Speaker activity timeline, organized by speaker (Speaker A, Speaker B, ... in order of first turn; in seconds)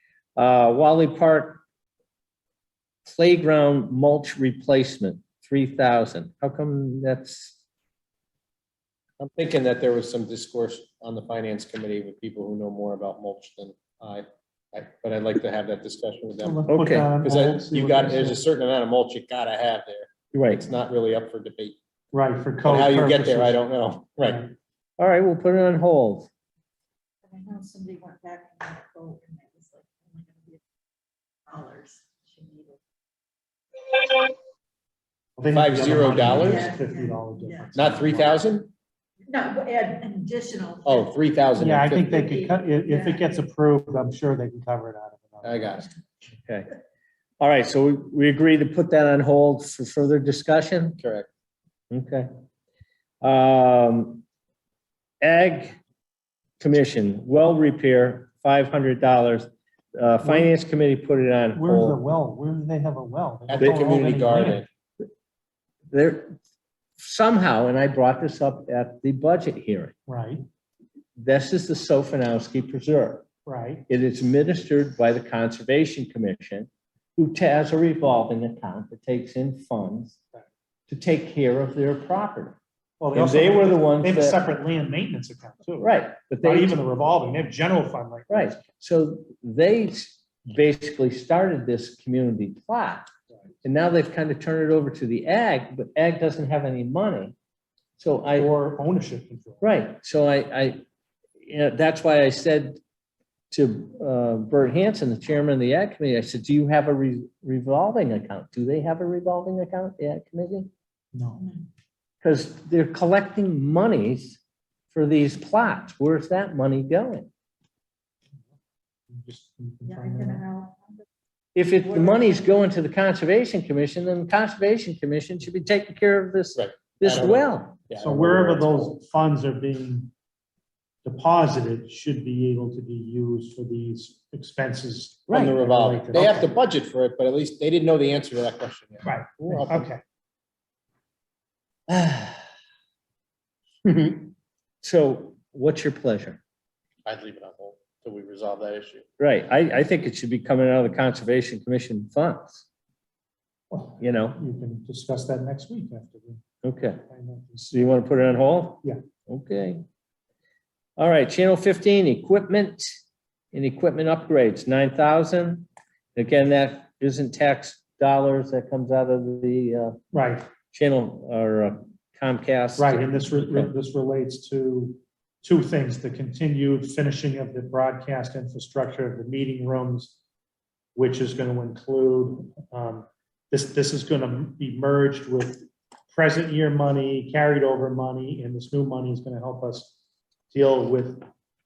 Speaker A: 0.4-1.6, 3.1-7.6, 16.7-17.1, 20.3-20.6, 25.0-26.3, 46.5-46.7, 47.4-51.0, 51.9-52.3, 53.2-54.2, 55.2-55.8, 56.6-62.0, 63.6-64.5, 65.9-66.3, 67.0-69.9, 71.2-73.2, 73.9-80.2, 80.9-82.6, 83.2-84.4, 85.8-86.8, 88.3-93.1, 93.6-97.3, 98.0-98.5, 99.6-100.8, 101.4-102.8, 103.5-110.7, 112.2-114.4, 114.9-117.3, 121.5-127.8, 135.3-135.6, 141.9-142.4, 144.8-146.4, 149.2-152.7, 154.0-154.4, 156.6-157.0, 157.6-159.8, 161.0-163.0, 163.5-170.0, 170.7-173.7
Speaker B: 9.2-21.8, 22.6-24.4, 35.5-36.7, 37.7-38.7, 40.9-42.5, 45.4-45.9, 51.0-51.3, 63.5-64.7, 126.6-128.9, 135.3-139.9, 143.9-144.3, 147.1-149.1
Speaker C: 16.4-18.4, 22.1-23.6, 24.2-24.5, 35.4-38.4, 41.6-45.9, 60.2-60.5, 61.5-64.7, 70.1-70.4, 73.5-73.9, 83.0-85.9, 86.4-88.6, 98.3-99.6, 111.1-111.5, 119.1-120.5, 128.0-130.1, 131.1-136.6, 139.1-140.0, 153.7-156.4, 157.1-157.8, 170.1-170.5, 172.8-180.1, 181.0-189.9, 190.5-191.3
Speaker D: 27.3-30.6, 31.5-32.8, 36.1-37.8, 39.3-41.1, 42.5-43.2, 119.8-121.0